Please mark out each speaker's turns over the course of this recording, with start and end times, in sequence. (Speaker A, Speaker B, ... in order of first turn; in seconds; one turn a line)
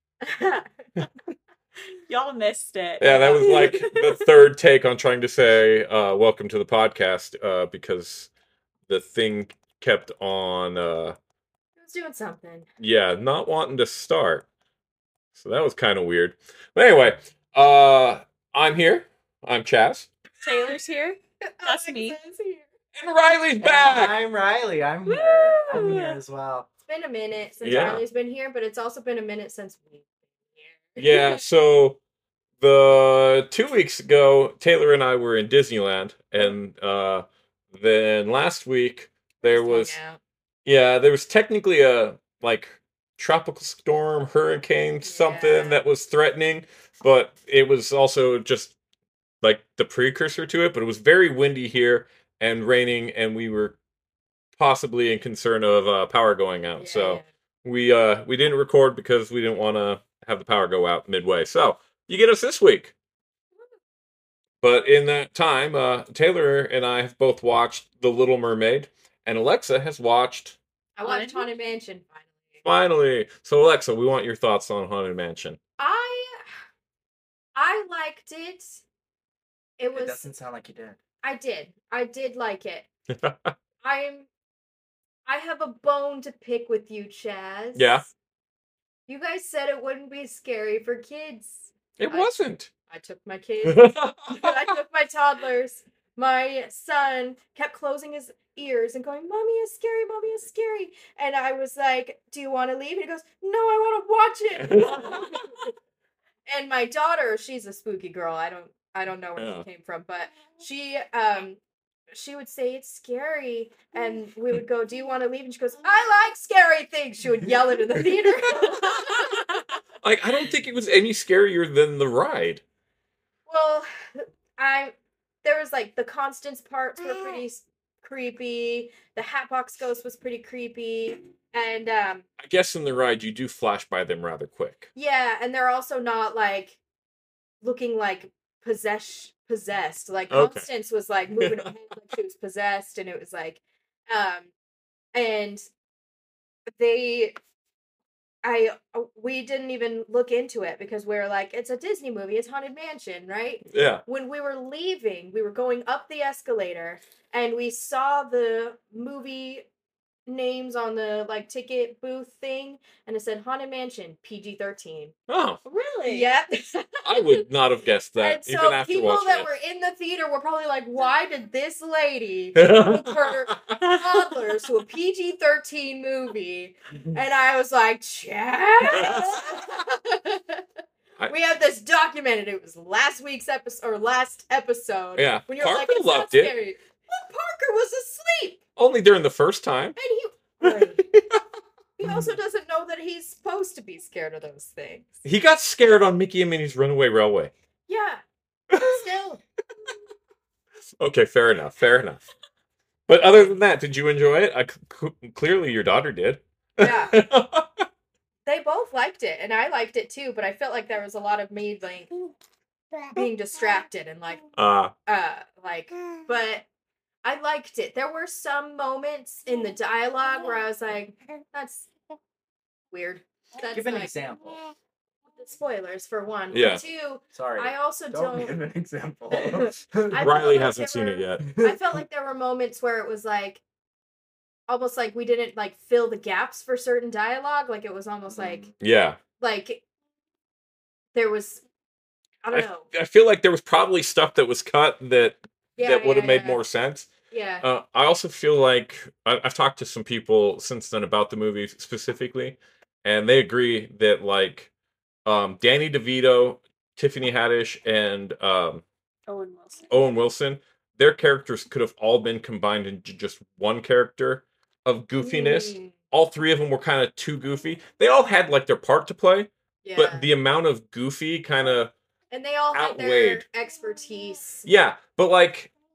Speaker A: 0.2-0.7
Speaker B: 2.1-4.2
Speaker C: 3.0-8.3
Speaker C: 8.9-11.2
Speaker A: 11.8-12.7
Speaker C: 12.8-14.4
Speaker C: 15.3-20.1
Speaker B: 20.4-22.2
Speaker A: 21.4-22.6
Speaker C: 22.9-24.1
Speaker D: 23.6-26.7
Speaker B: 25.1-26.2
Speaker A: 26.9-31.4
Speaker C: 27.6-28.0
Speaker C: 31.0-32.0
Speaker C: 32.6-40.0
Speaker A: 39.4-40.2
Speaker C: 40.6-48.7
Speaker A: 45.0-45.8
Speaker C: 49.4-53.8
Speaker C: 54.6-62.9
Speaker A: 56.8-57.3
Speaker C: 64.6-70.6
Speaker A: 71.0-72.6
Speaker B: 71.0-71.5
Speaker C: 72.6-75.6
Speaker A: 75.8-76.4
Speaker A: 77.5-78.8
Speaker A: 79.8-80.2
Speaker D: 79.9-81.0
Speaker A: 81.2-82.9
Speaker C: 83.1-83.5
Speaker A: 83.8-84.3
Speaker A: 85.2-88.1
Speaker C: 87.8-88.0
Speaker A: 89.1-92.3
Speaker C: 92.0-92.7
Speaker A: 92.9-105.5
Speaker C: 93.6-94.5
Speaker C: 104.6-105.4
Speaker A: 106.5-119.7
Speaker C: 109.4-109.6
Speaker C: 118.6-119.0
Speaker C: 120.0-122.6
Speaker A: 123.5-132.2
Speaker C: 132.4-134.9
Speaker A: 134.9-136.8
Speaker A: 137.6-144.5
Speaker C: 140.3-140.7
Speaker A: 145.1-145.7
Speaker A: 146.8-147.4
Speaker A: 148.4-159.7
Speaker C: 153.7-154.0
Speaker A: 160.3-165.1
Speaker C: 165.3-165.6
Speaker B: 165.6-166.3
Speaker A: 166.1-167.4
Speaker C: 167.0-169.5
Speaker A: 168.2-180.6
Speaker C: 172.6-173.8
Speaker C: 178.9-179.3
Speaker A: 181.3-188.6
Speaker C: 185.2-186.5
Speaker C: 188.8-189.9
Speaker A: 189.9-191.1
Speaker C: 191.1-191.4
Speaker A: 192.0-195.1
Speaker C: 195.2-197.5
Speaker A: 197.9-198.2
Speaker C: 198.7-199.0
Speaker A: 198.8-199.4
Speaker C: 201.0-202.2
Speaker C: 203.1-207.8
Speaker A: 206.8-207.2
Speaker A: 208.4-212.1
Speaker A: 213.0-214.4
Speaker C: 214.6-214.9
Speaker A: 215.1-216.7
Speaker A: 217.2-221.9
Speaker A: 222.9-224.1
Speaker D: 223.7-224.6
Speaker A: 225.4-228.6
Speaker C: 226.5-226.8
Speaker D: 227.3-230.6
Speaker A: 229.3-233.6
Speaker C: 230.2-231.6
Speaker A: 234.7-238.7
Speaker D: 238.3-238.7
Speaker C: 238.8-239.2
Speaker A: 239.4-239.8
Speaker A: 241.1-241.6
Speaker A: 242.4-242.8
Speaker C: 242.5-247.1
Speaker A: 245.8-246.6
Speaker A: 247.3-247.6
Speaker C: 247.6-254.7
Speaker C: 255.2-258.8
Speaker B: 259.3-259.9
Speaker C: 259.9-271.9
Speaker A: 265.2-265.9
Speaker A: 269.8-270.3
Speaker A: 272.3-274.6
Speaker C: 272.7-273.4
Speaker C: 274.6-275.7